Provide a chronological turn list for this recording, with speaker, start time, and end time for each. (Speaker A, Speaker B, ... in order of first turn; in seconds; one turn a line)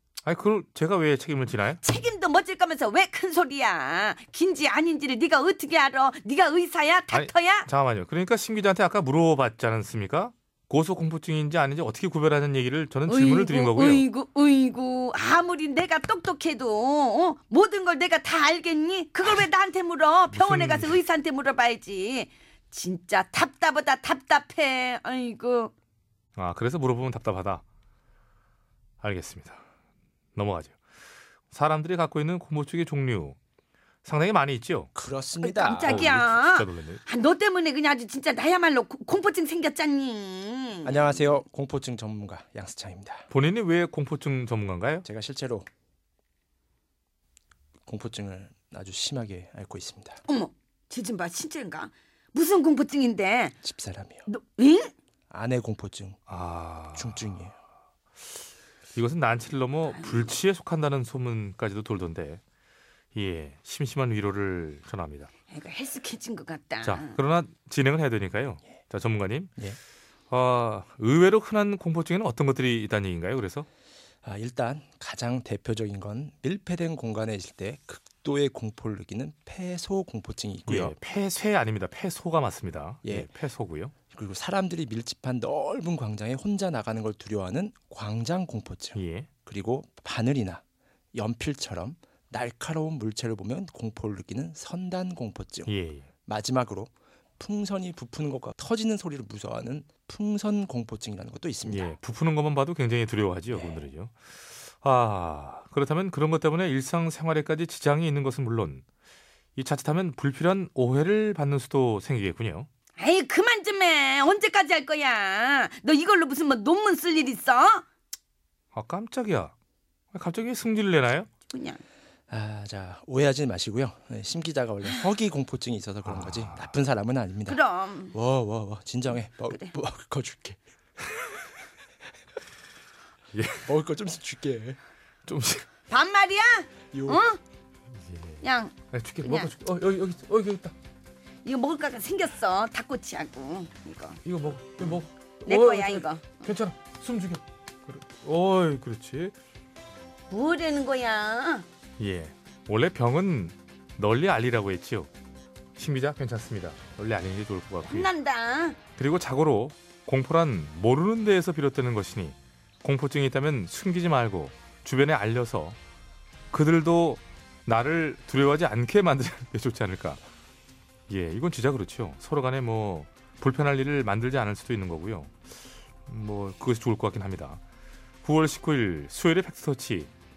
Speaker A: 0.2-1.8
Speaker B: 1.8-7.7
Speaker A: 7.1-14.1
Speaker B: 13.1-25.7
Speaker A: 20.3-21.0
Speaker A: 26.4-27.6
Speaker A: 29.0-29.6
Speaker A: 30.4-30.8
Speaker A: 31.5-33.4
Speaker A: 34.0-34.9
Speaker C: 35.0-36.0
Speaker B: 35.4-41.2
Speaker A: 35.8-37.0
Speaker C: 40.9-43.3
Speaker A: 43.3-45.1
Speaker C: 45.0-45.7
Speaker C: 47.9-50.2
Speaker B: 50.3-53.6
Speaker C: 53.6-54.2
Speaker B: 54.3-54.9
Speaker C: 55.3-56.2
Speaker A: 56.3-57.2
Speaker C: 56.9-57.6
Speaker A: 58.9-62.4
Speaker B: 59.9-60.3
Speaker A: 63.1-65.3
Speaker B: 65.5-67.2
Speaker A: 66.8-69.5
Speaker A: 70.3-73.7
Speaker C: 74.2-81.0
Speaker A: 80.7-83.9
Speaker C: 83.0-83.3
Speaker C: 84.1-90.6
Speaker A: 89.0-89.3
Speaker C: 91.1-95.7
Speaker A: 95.7-96.1
Speaker C: 96.3-102.0
Speaker A: 101.7-108.8
Speaker C: 103.5-103.8
Speaker A: 109.6-112.7
Speaker B: 113.0-117.8
Speaker A: 118.7-119.5
Speaker A: 120.1-121.3
Speaker B: 121.5-121.8
Speaker C: 122.3-127.6
Speaker A: 126.0-126.7
Speaker B: 127.5-128.2
Speaker C: 128.1-130.6
Speaker B: 129.5-129.8
Speaker A: 133.3-133.7
Speaker C: 133.7-134.8
Speaker A: 135.3-135.7
Speaker B: 135.9-137.4
Speaker C: 136.9-137.2
Speaker A: 137.9-138.4
Speaker B: 138.4-139.5
Speaker A: 138.9-140.8
Speaker B: 141.4-144.2
Speaker A: 144.2-149.3
Speaker B: 145.5-146.5
Speaker B: 150.3-151.7
Speaker A: 152.0-155.1
Speaker A: 155.8-158.1
Speaker B: 157.9-158.8
Speaker A: 159.0-165.8
Speaker A: 166.5-170.2
Speaker A: 171.1-175.4
Speaker A: 176.1-177.6
Speaker A: 178.2-180.1